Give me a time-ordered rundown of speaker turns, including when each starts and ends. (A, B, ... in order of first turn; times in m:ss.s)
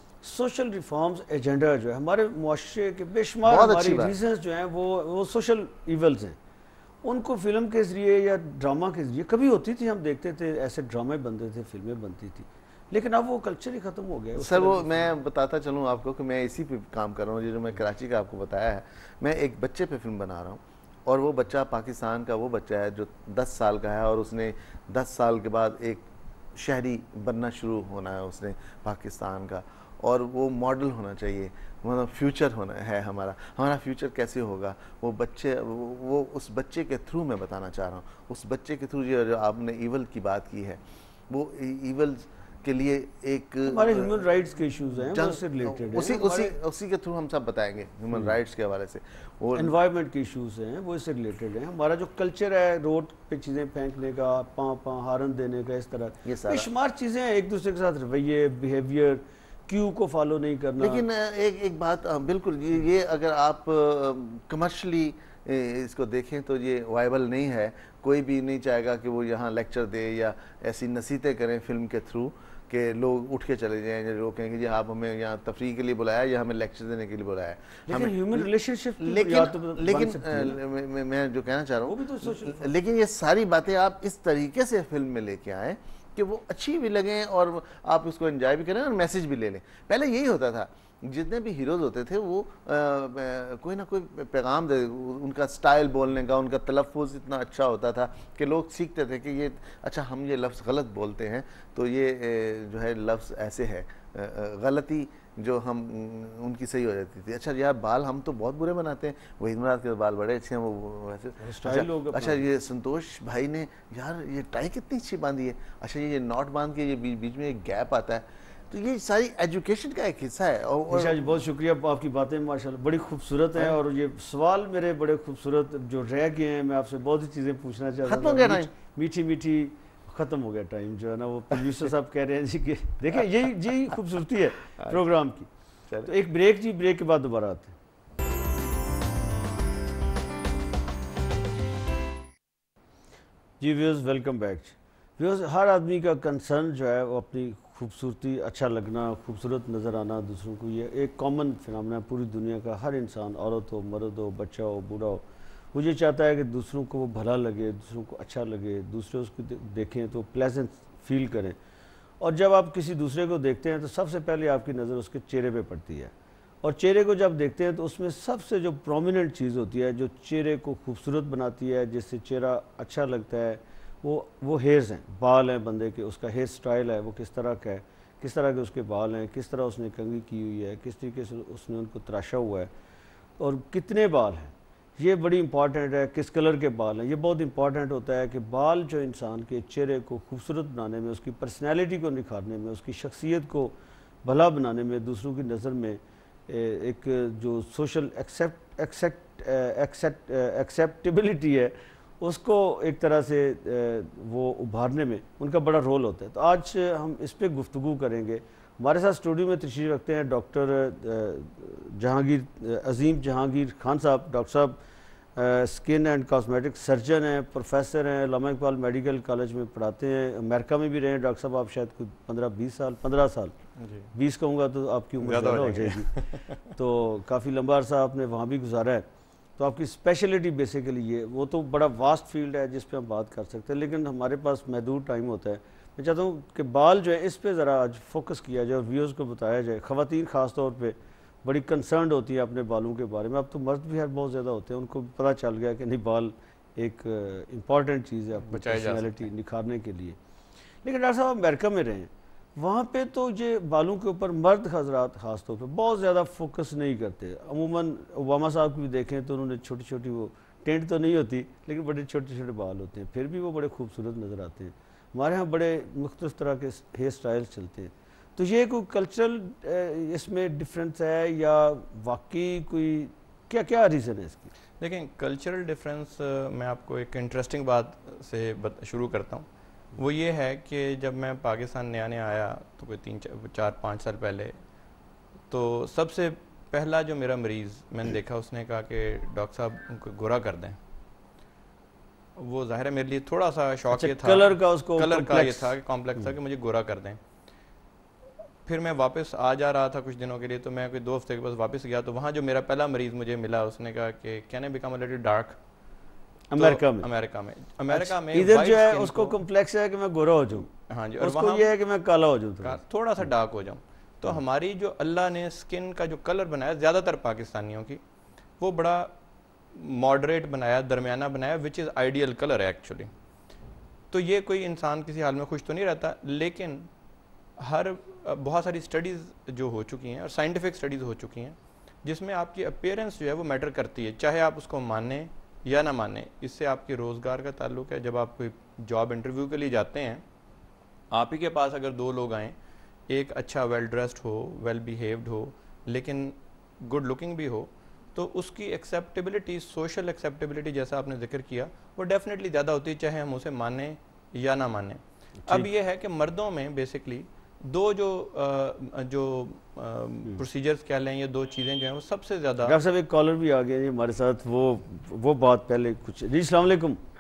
0:00.2-0:06.4 A
0:03.5-0:04.2 B
0:07.0-0:15.1 A
0:14.4-0:44.2 B
0:43.6-0:46.6 A
0:45.1-0:49.7 B
0:48.1-0:48.4 A
0:49.6-1:01.0 A
0:56.2-0:56.7 B
1:00.8-2:01.3 B
1:17.9-1:20.6 A
1:21.9-1:22.7 A
1:51.4-1:52.5 A
2:00.9-2:15.5 A
2:08.0-2:08.7 B
2:14.8-2:15.0 B
2:16.0-2:17.8 A
2:23.6-2:41.6 A
2:42.2-3:02.7 A
3:03.4-3:34.8 A
3:35.4-3:43.5 A
3:43.8-3:44.1 C
3:44.1-3:46.1 A
3:45.2-3:46.6 C
3:46.6-3:49.1 A
3:49.6-4:10.2 A
4:08.4-4:09.3 C
4:10.8-4:34.5 A
4:34.8-4:44.6 C
4:45.5-4:50.8 C
4:52.4-4:57.2 C
4:53.9-4:55.8 A
4:58.6-5:05.6 C
5:06.5-5:07.1 A
5:06.6-5:09.4 C
5:07.9-5:12.8 A
5:10.9-5:11.7 C
5:12.6-5:18.0 C
5:18.6-5:19.1 C
5:19.7-5:23.1 C
5:24.1-5:26.9 C
5:27.6-5:40.2 C
5:41.1-5:42.6 C
5:43.1-6:02.8 C
6:02.6-6:07.0 A